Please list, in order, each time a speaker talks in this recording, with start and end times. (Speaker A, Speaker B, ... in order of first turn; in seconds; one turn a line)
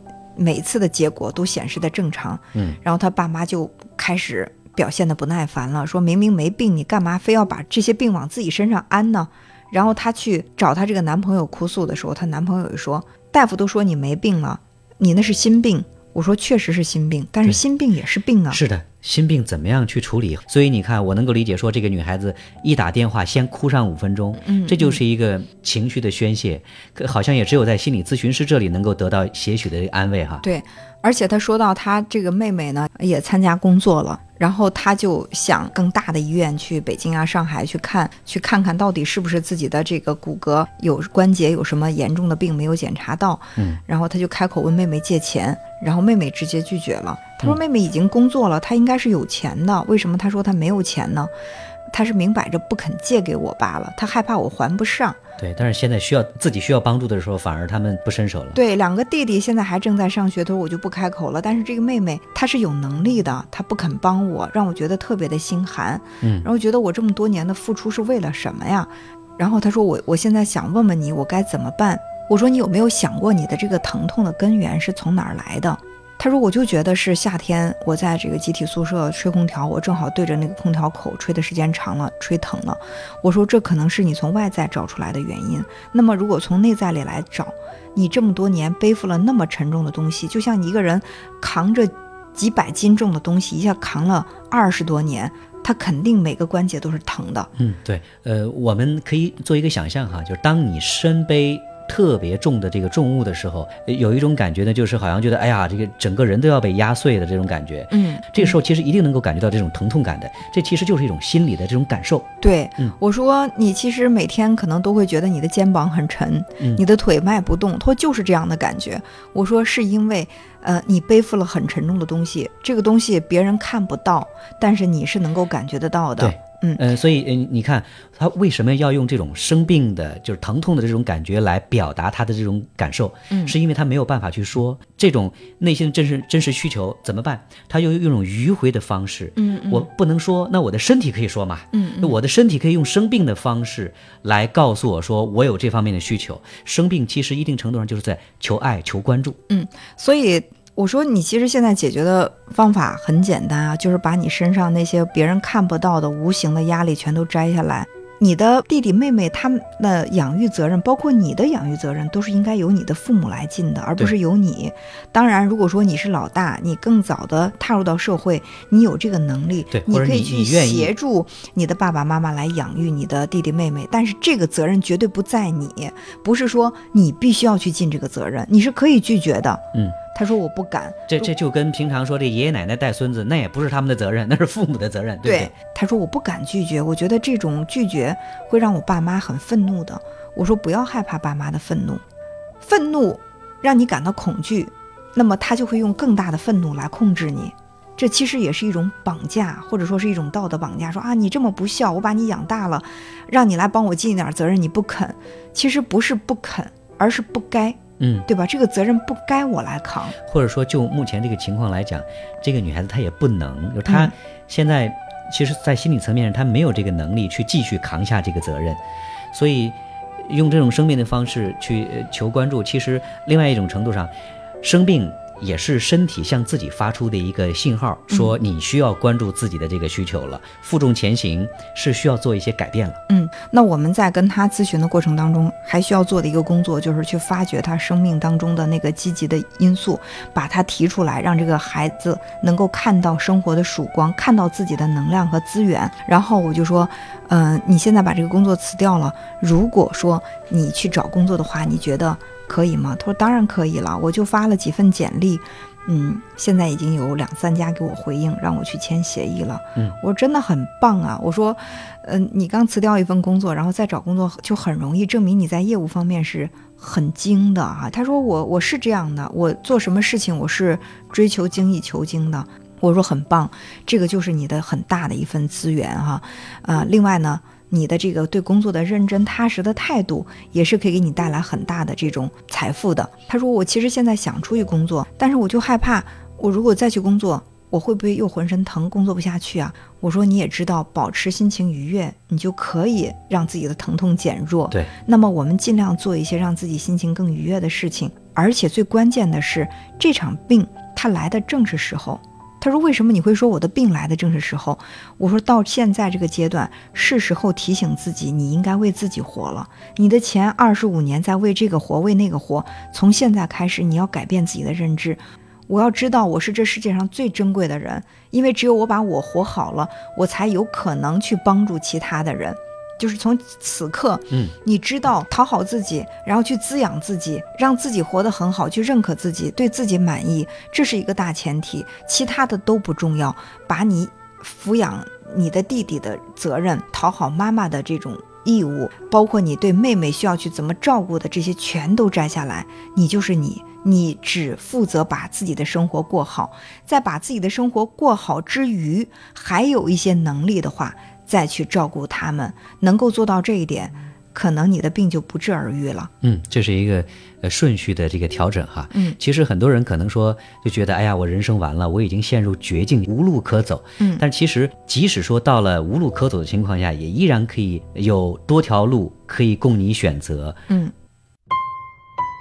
Speaker A: 0.4-18.6
Speaker B: 2.5-2.8
Speaker B: 18.5-30.4
Speaker A: 24.4-25.0
Speaker A: 30.4-51.3
Speaker A: 51.9-55.2
Speaker B: 55.4-58.6
Speaker A: 58.5-97.5
Speaker B: 66.2-66.5
Speaker B: 97.6-112.3
Speaker A: 107.9-108.6
Speaker A: 112.4-126.9
Speaker B: 126.2-149.4
Speaker A: 133.3-133.6
Speaker A: 139.4-139.9
Speaker A: 141.7-142.2
Speaker A: 149.5-179.6
Speaker B: 169.7-170.9
Speaker A: 180.1-181.3
Speaker B: 181.1-185.5
Speaker A: 185.2-192.0
Speaker A: 192.6-210.2
Speaker B: 208.0-208.3
Speaker B: 210.2-218.8
Speaker A: 213.8-214.1
Speaker B: 219.3-224.1
Speaker B: 224.6-233.0
Speaker A: 228.1-228.4
Speaker A: 233.1-356.1
Speaker B: 356.2-370.6
Speaker A: 358.9-359.2
Speaker A: 364.0-364.3